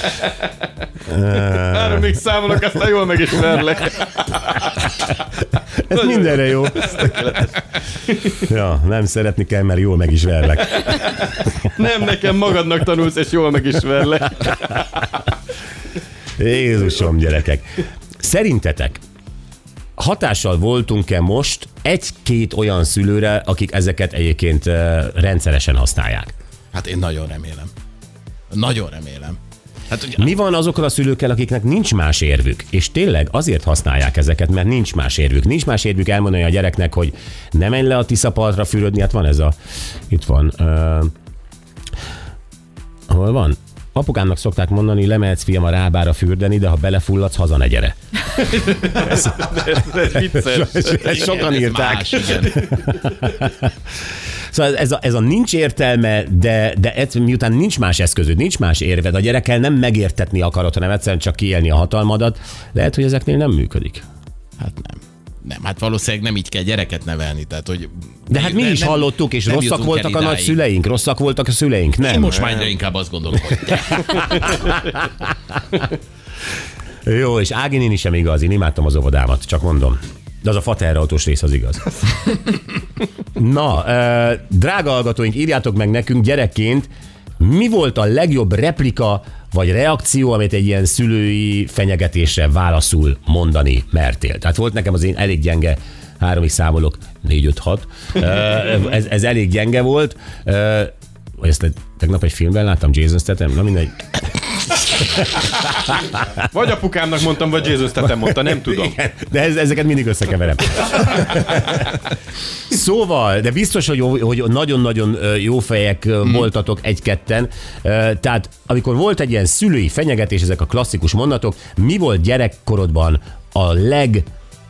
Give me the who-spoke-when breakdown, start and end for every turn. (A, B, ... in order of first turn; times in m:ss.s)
0:01.1-0:02.2 A
0:01.6-0:04.8 B
0:05.8-0:07.2 A
0:05.9-0:08.5 B
0:08.4-0:11.0 A
0:10.8-0:15.2 B
0:16.4-0:19.0 A
0:20.0-0:26.3 A
0:26.7-0:27.7 C
0:28.5-0:29.4 C
0:29.9-0:30.3 C
0:30.2-0:39.6 A
0:40.1-0:41.1 A
0:43.1-0:48.0 A
0:48.3-0:51.1 B
0:50.4-0:53.7 A
0:51.0-0:52.7 C
0:54.5-1:04.0 A
1:04.6-1:10.6 C
1:08.3-1:12.4 A
1:12.0-1:14.3 C
1:14.1-1:15.1 A
1:17.1-1:21.9 A
1:23.4-1:44.1 A
1:44.8-1:46.0 A
1:46.5-1:49.0 B
1:48.5-1:52.0 A
1:52.7-2:04.3 A